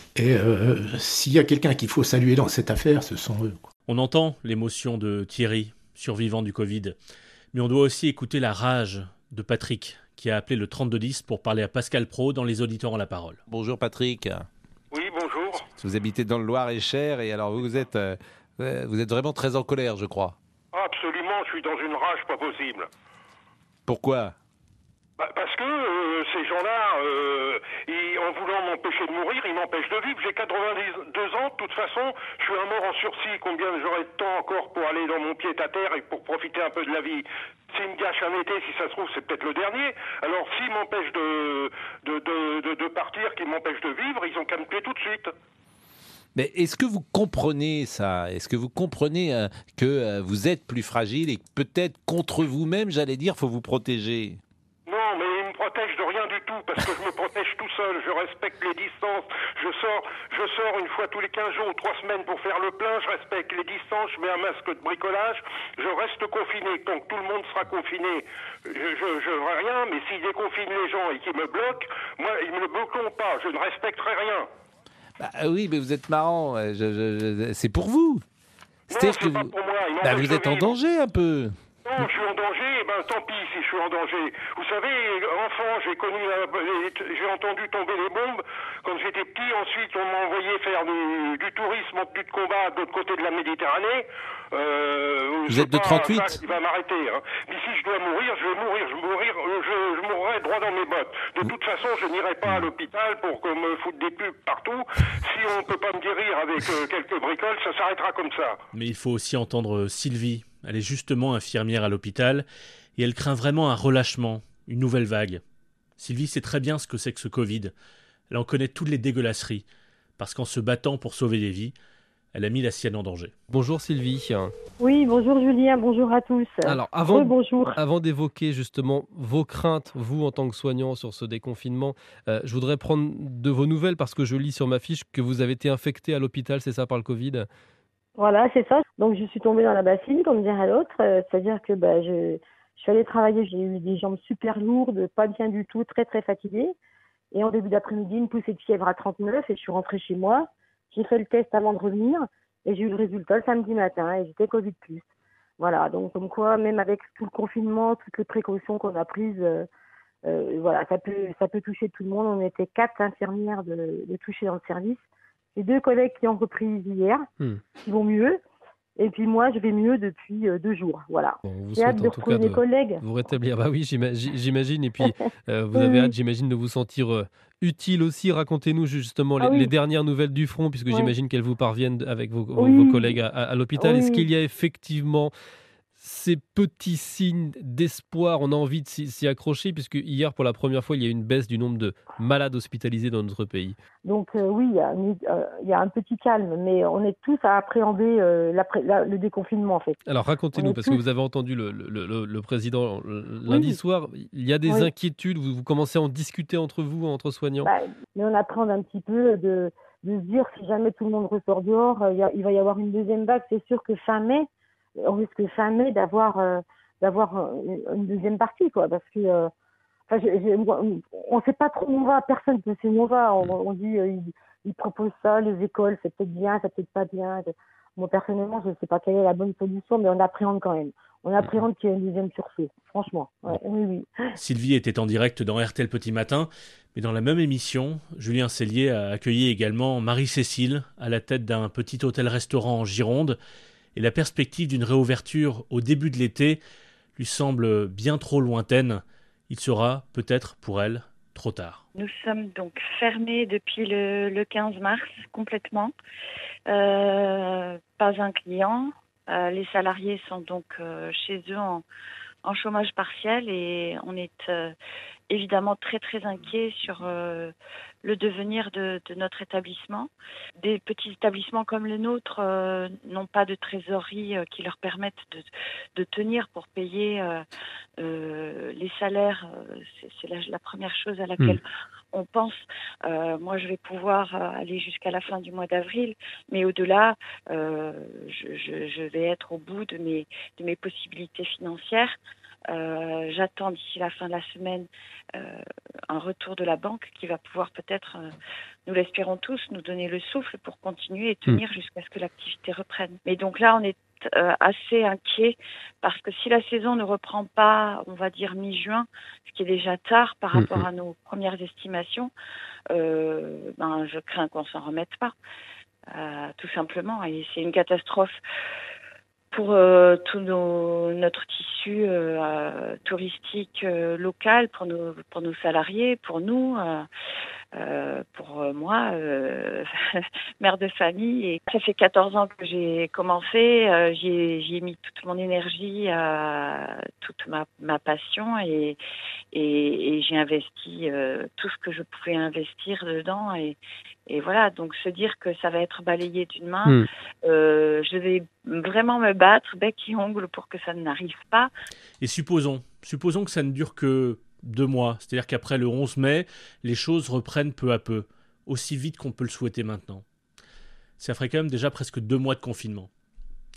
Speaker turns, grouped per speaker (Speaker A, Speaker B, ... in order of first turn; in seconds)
Speaker A: 0.1-3.6
Speaker B: 3.9-7.0, 7.5-13.4, 108.7-112.5, 113.0-115.4, 116.0-117.7, 118.3-119.7, 120.2-121.8, 122.3-123.3, 234.3-243.4, 243.9-246.6, 247.2-251.8, 352.2-360.2, 361.2-363.1
Speaker C: 13.5-14.5, 15.7-20.3, 23.9-24.3, 46.3-54.4, 75.2-78.2, 78.9-82.1, 95.5-96.4
Speaker D: 14.9-15.7, 20.7-22.9, 25.2-45.3, 54.9-74.5, 78.9-80.8, 81.8-108.6
Speaker E: 123.5-124.5, 126.6-137.5, 167.4-167.7, 171.4-185.3, 186.0-193.8, 200.1-207.7
Speaker F: 124.8-127.8, 138.2-146.7, 147.3-155.0, 155.6-159.7, 160.2-165.0, 165.6-168.4, 169.0-173.0, 175.7-176.1, 179.4-179.7, 182.6-183.2, 183.7-184.2, 194.0-200.0, 200.5-201.0, 203.5-203.8, 204.7-204.9, 207.6-214.5, 215.0-219.5, 220.1-234.1
Speaker G: 251.9-255.9, 256.7-261.8, 262.4-264.8, 265.3-277.4, 278.0-292.1, 292.7-298.3, 298.9-312.3, 312.9-315.3, 316.1-318.4, 319.5-327.1, 327.7-339.0, 339.5-351.7